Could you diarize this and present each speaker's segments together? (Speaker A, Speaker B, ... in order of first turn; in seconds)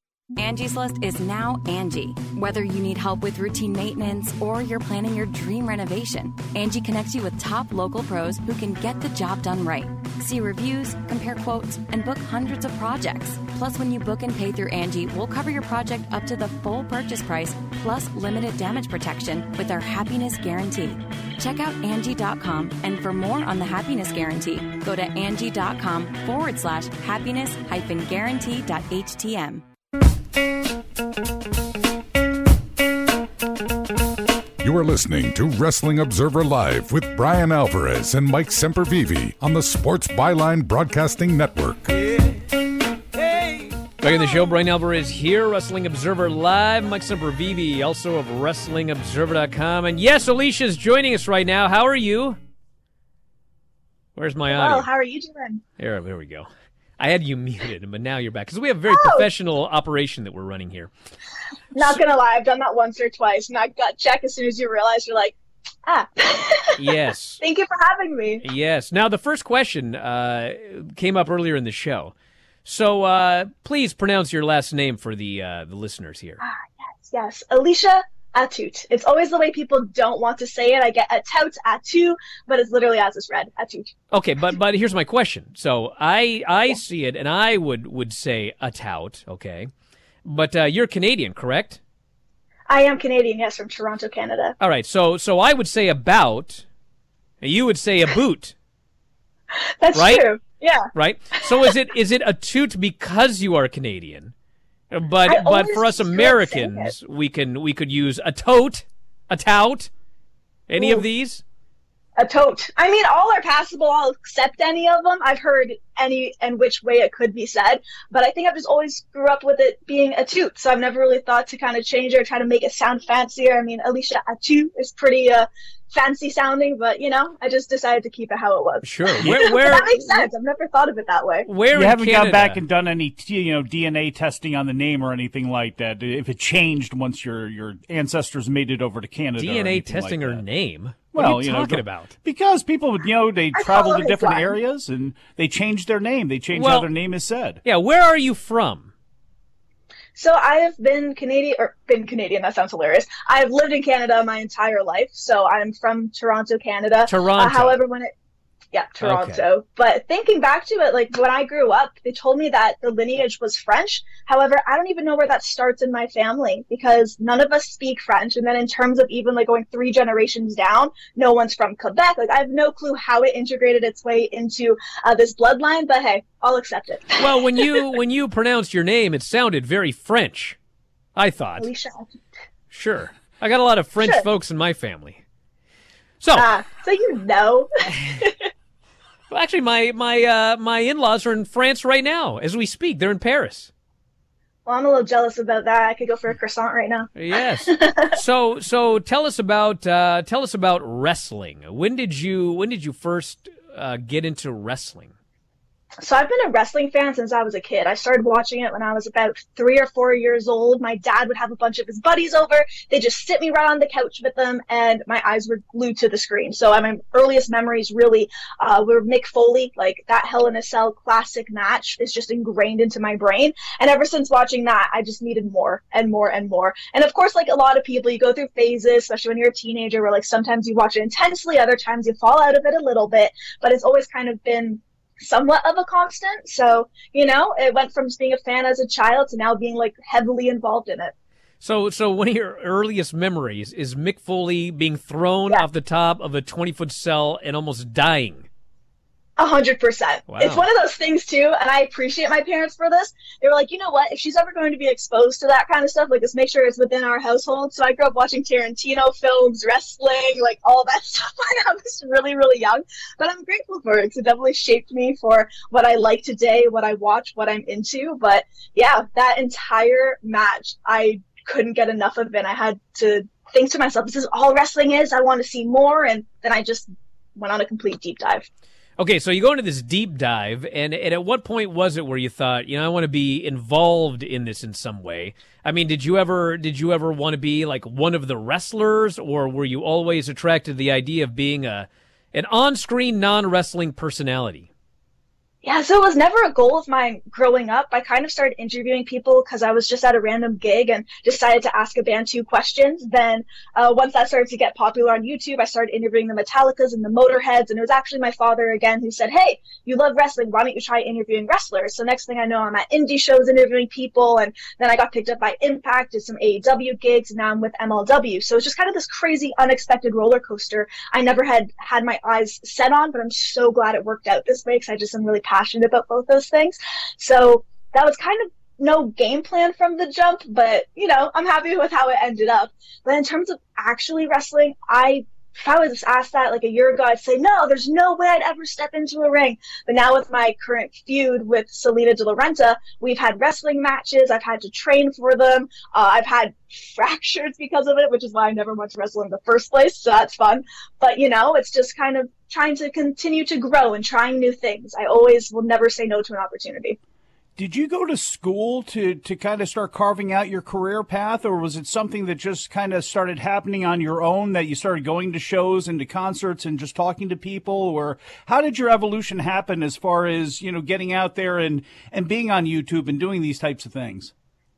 Speaker A: 0.4-29.6
Speaker B: 34.6-42.0
Speaker C: 44.0-52.4, 54.2-54.9, 55.8-60.9, 66.8-67.4, 68.4-72.1, 72.7-76.4, 84.1-89.7, 90.2-91.8, 94.6-96.7, 97.4-98.5, 99.9-100.3, 100.9-104.3, 104.9-109.9, 110.7-111.4, 128.8-130.3, 131.5-132.6, 139.4-142.1, 146.5-146.9, 147.7-148.9, 157.1-157.8, 159.0-159.5, 177.2-180.6, 181.2-181.7, 182.7-185.2, 186.2-186.5, 189.3-193.7, 197.2-205.1, 241.6-248.5, 250.3-250.6, 279.0-294.7
Speaker D: 54.5-55.6, 58.9-59.3, 61.8-65.3, 65.9-68.5, 76.4-83.9, 92.7-94.6, 99.8-101.8, 105.3-107.0, 110.7-111.1, 112.2-131.5, 143.5-144.6, 150.2-158.1, 158.7-177.8, 181.6-182.2, 184.0-184.2, 186.3-188.3, 194.7-198.2, 206.0-241.1, 249.4-278.5, 295.6-357.0
Speaker E: 131.7-140.4, 141.1-147.6, 357.6-374.3